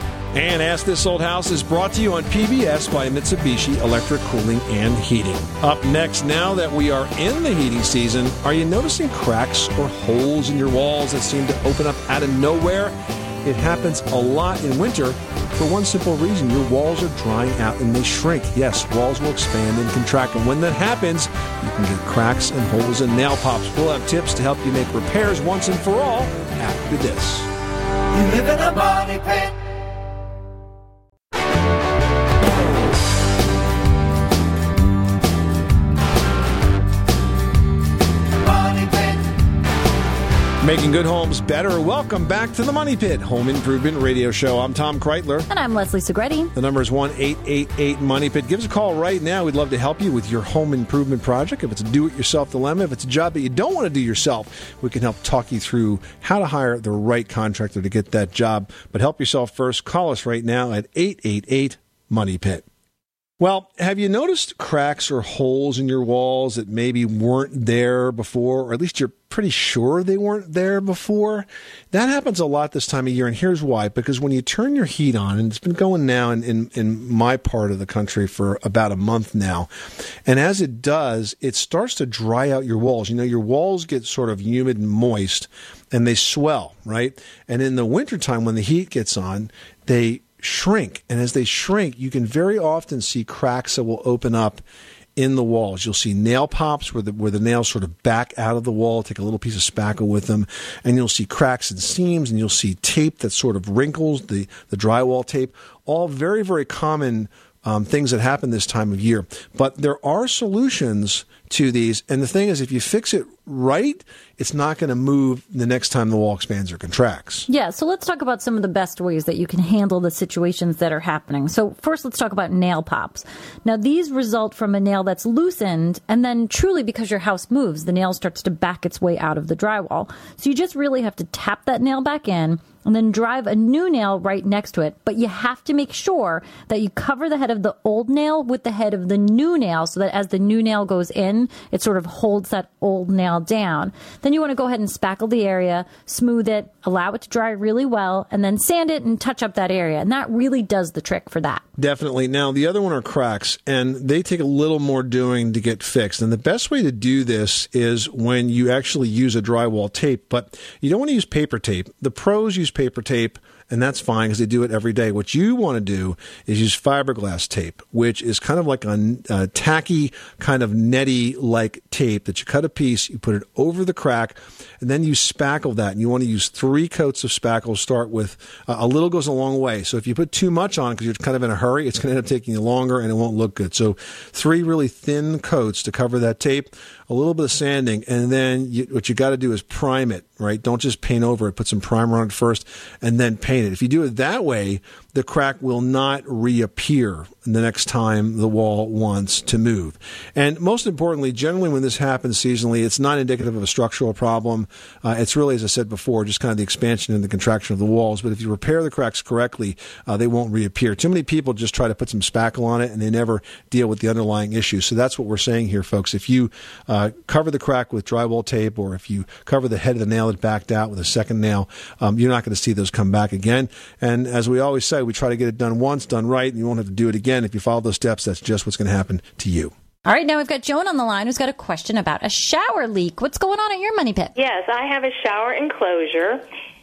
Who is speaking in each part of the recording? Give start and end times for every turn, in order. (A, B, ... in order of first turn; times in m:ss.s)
0:00.3-0:27.5 A
0:28.1-0:29.5 B
0:38.4-0:39.2 B
0:40.6-0:45.5 A
0:45.5-0:46.5 C
0:46.5-1:02.6 A
1:03.4-1:19.7 A
1:20.2-1:34.6 A
1:35.2-1:57.5 A
1:57.5-2:31.6 C
2:31.8-3:49.7 A
3:50.0-3:54.3 C
3:54.4-3:56.4 D